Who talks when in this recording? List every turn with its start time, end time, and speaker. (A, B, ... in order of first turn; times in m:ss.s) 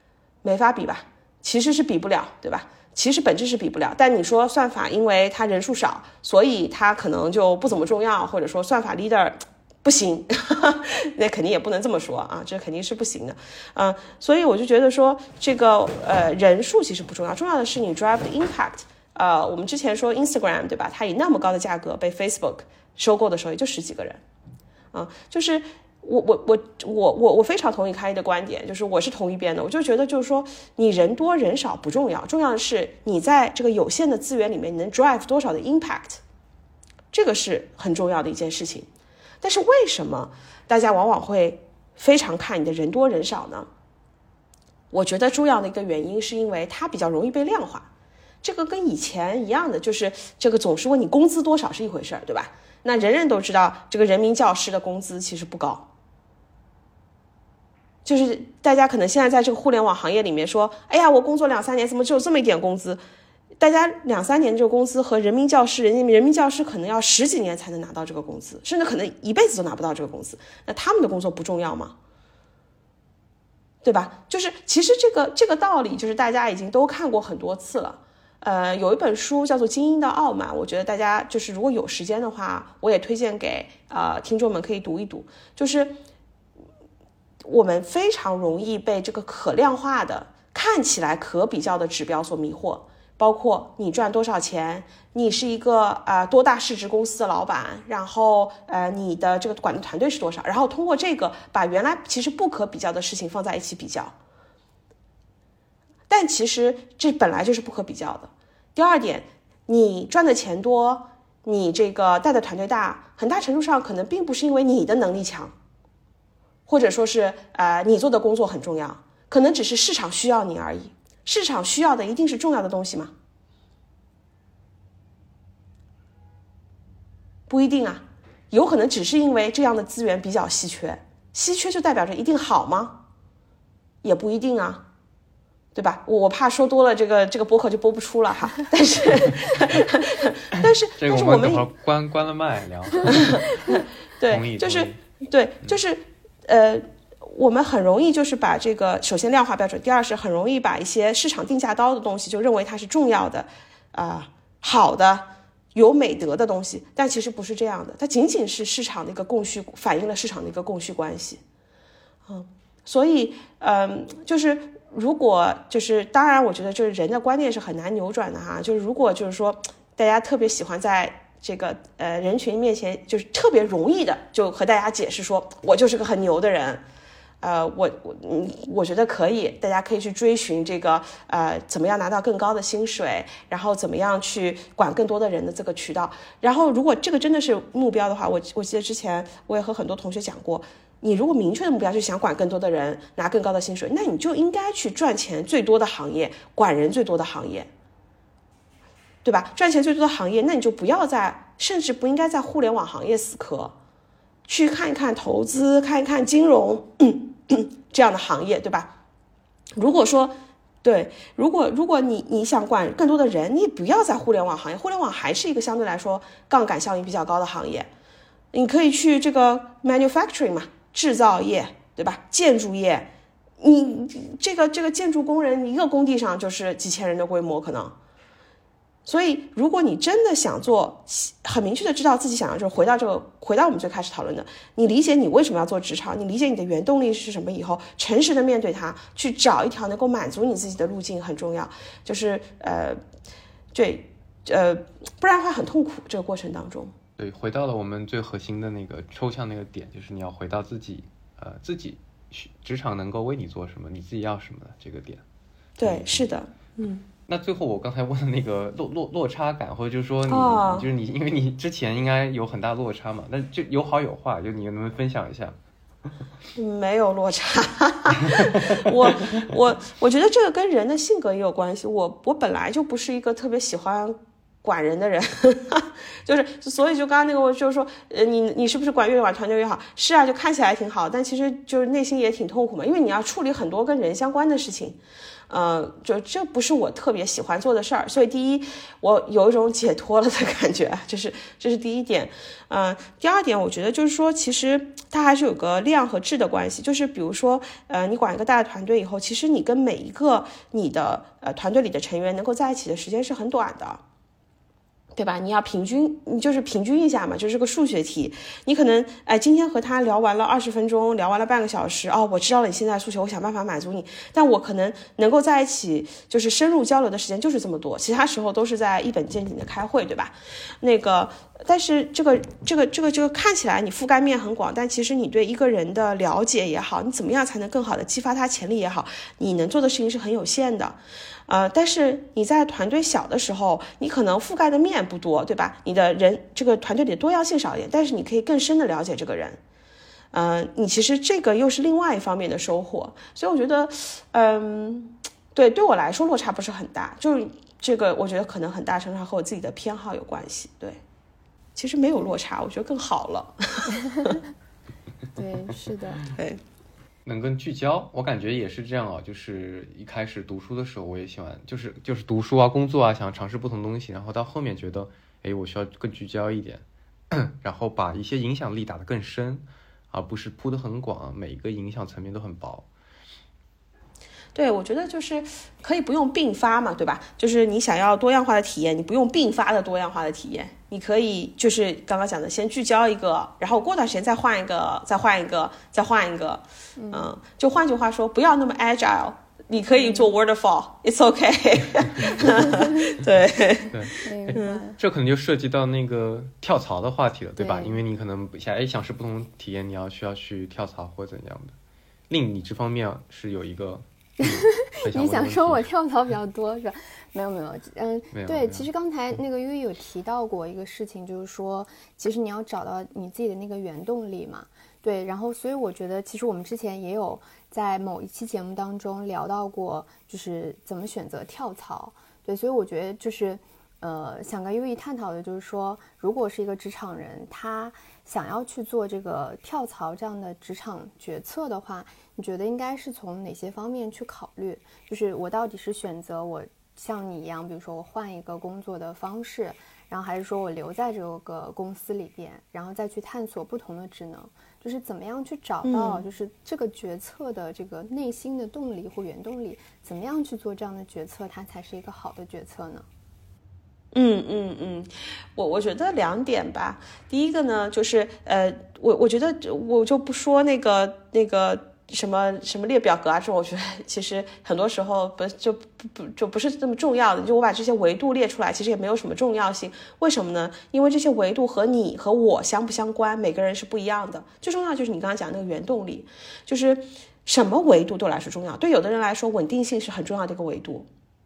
0:00.4-0:24.2 A
0:24.9-0:36.2 A
0:37.1-0:38.9 A
0:39.4-0:43.7 A
0:44.9-0:47.9 A
0:48.4-0:55.9 A
0:58.0-1:03.0 A
1:03.6-1:12.0 A
1:13.8-1:26.0 A
1:27.4-1:44.1 A
1:46.1-1:55.5 A
1:56.7-2:03.1 A
2:07.5-2:13.0 A
2:14.0-2:14.8 A
2:15.7-2:21.7 A
2:20.6-2:25.0 B
2:23.1-2:41.4 A
2:42.3-2:56.8 A
2:57.4-3:17.7 A
3:19.2-3:23.7 A
3:24.4-3:28.9 A
3:29.8-3:37.9 A
3:38.5-3:48.0 A
3:49.0-4:03.0 A
4:03.7-4:06.9 A
4:07.2-4:15.2 B
4:15.8-4:17.0 A
4:15.8-4:16.3 B
4:17.3-4:25.6 B
4:20.3-4:20.9 A
4:26.6-4:45.0 A
4:28.4-4:28.7 B
4:45.5-5:04.0 A
5:05.2-5:39.6 A
5:40.3-5:51.0 A
5:51.8-5:54.4 A
5:55.4-5:56.3 C
5:57.2-6:12.9 B
6:14.6-6:34.8 A
6:27.0-6:27.3 C
6:29.9-6:30.3 C
6:32.6-6:33.1 C
6:33.9-6:41.7 B
6:34.2-6:35.0 C
6:37.6-6:38.0 C
6:42.3-6:45.9 B
6:44.4-7:33.0 C
6:48.3-6:48.9 B
7:25.8-7:26.2 A
7:34.1-8:01.1 A